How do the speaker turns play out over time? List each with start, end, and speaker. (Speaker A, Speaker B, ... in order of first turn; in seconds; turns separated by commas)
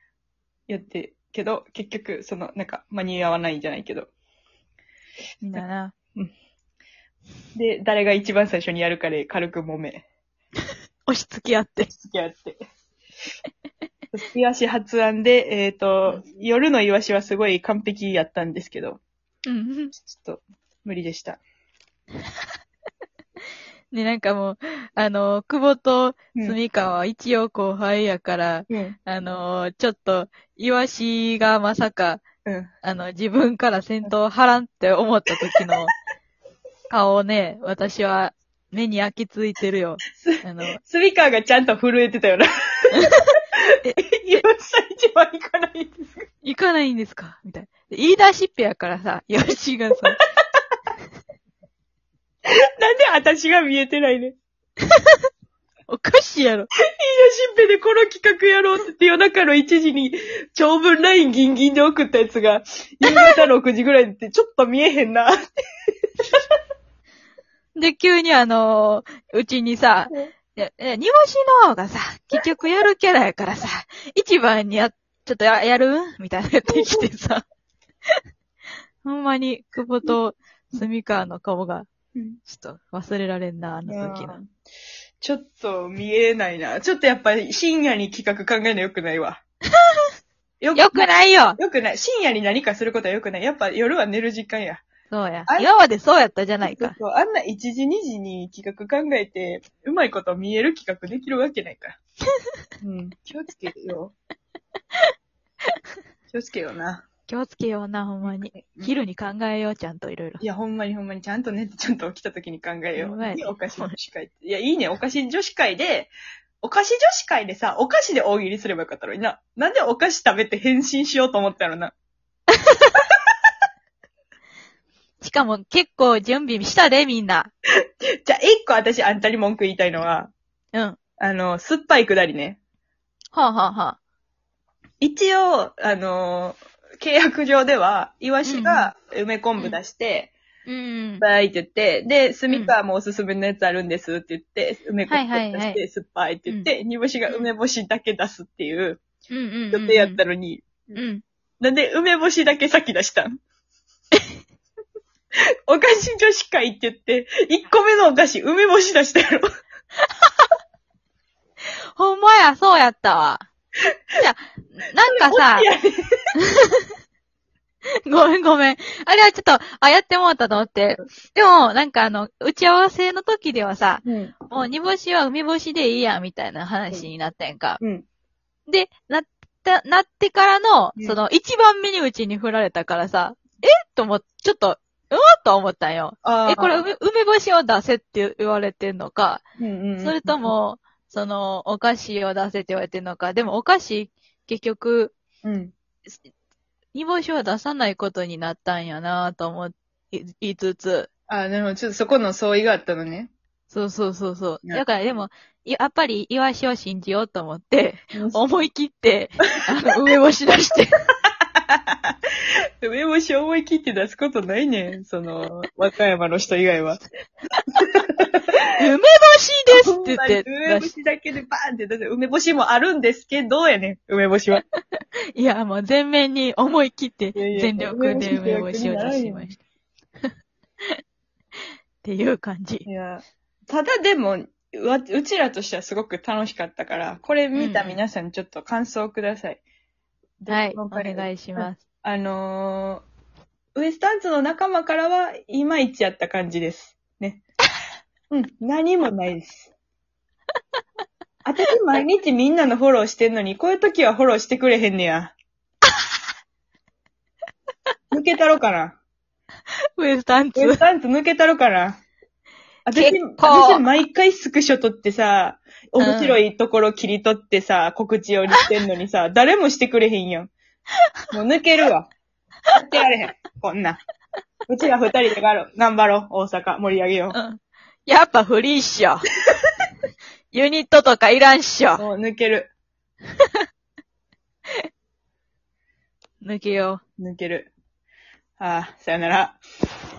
Speaker A: 0.7-4.1, Speaker B: 5.4-5.9, Speaker A: 7.5-10.0, Speaker B: 11.1-11.9, Speaker A: 11.9-12.6, Speaker A: 14.1-19.0, Speaker B: 19.4-19.9, Speaker A: 19.9-21.4, Speaker B: 23.9-32.2, Speaker A: 28.7-29.0, Speaker A: 32.4-32.7, Speaker B: 32.8-35.9, Speaker B: 36.9-40.8, Speaker A: 40.2-46.3, Speaker B: 43.0-43.3, Speaker B: 43.8-44.4, Speaker B: 46.4-50.2, Speaker A: 52.5-54.3, Speaker B: 54.9-55.2, Speaker B: 55.9-56.7, Speaker A: 57.0-65.4, Speaker B: 63.0-63.5, Speaker B: 67.7-77.4, Speaker A: 76.7-77.1, Speaker B: 79.0-81.9, Speaker B: 82.5-84.4, Speaker A: 83.9-84.5, Speaker A: 85.2-89.4, Speaker A: 90.6-94.8, Speaker B: 90.7-91.6, Speaker B: 95.1-97.0, Speaker A: 96.6-102.0, Speaker A: 102.8-104.1, Speaker A: 106.3-107.0, Speaker B: 107.3-110.4, Speaker A: 108.2-108.9, Speaker A: 110.4-121.9, Speaker B: 113.0-113.9, Speaker B: 125.2-127.5, Speaker A: 128.2-130.3, Speaker A: 131.2-132.6, Speaker B: 133.3-134.0, Speaker A: 135.0-140.3, Speaker B: 138.4-138.9, Speaker B: 140.7-141.2, Speaker A: 141.2-149.0, Speaker B: 145.1-145.8, Speaker B: 149.3-150.2, Speaker A: 149.7-150.9, Speaker B: 150.9-151.2, Speaker A: 151.6-153.3, Speaker A: 155.7-159.4, Speaker B: 161.9-163.5, Speaker B: 164.2-165.7, Speaker A: 165.0-166.0, Speaker B: 166.3-166.9, Speaker B: 168.1-177.8, Speaker A: 174.0-174.3, Speaker A: 177.8-178.1, Speaker B: 178.7-189.4, Speaker A: 186.2-186.8, Speaker A: 189.6-190.5, Speaker B: 190.0-195.1, Speaker A: 195.4-195.7, Speaker B: 196.9-201.1, Speaker A: 201.3-203.3, Speaker B: 203.7-210.9, Speaker A: 208.1-208.4, Speaker A: 211.7-212.1, Speaker A: 212.8-217.0, Speaker A: 217.7-218.6, Speaker B: 218.8-220.9, Speaker A: 219.7-224.6, Speaker B: 224.6-229.6, Speaker A: 227.3-229.5, Speaker B: 232.0-232.8, Speaker A: 232.8-239.6, Speaker B: 237.5-238.0, Speaker A: 240.4-243.0, Speaker B: 240.5-241.8, Speaker A: 243.7-247.4, Speaker A: 248.3-249.7, Speaker A: 251.4-255.3, Speaker A: 258.1-259.0, Speaker B: 260.0-260.8, Speaker A: 260.6-262.0, Speaker A: 262.9-270.5, Speaker B: 262.9-263.8, Speaker B: 266.0-266.4, Speaker A: 271.3-272.1, Speaker A: 272.7-274.0, Speaker A: 274.7-277.4, Speaker B: 277.3-279.2, Speaker B: 280.5-282.0, Speaker A: 282.0-282.7, Speaker B: 286.4-287.0, Speaker A: 287.2-287.7, Speaker A: 288.6-289.6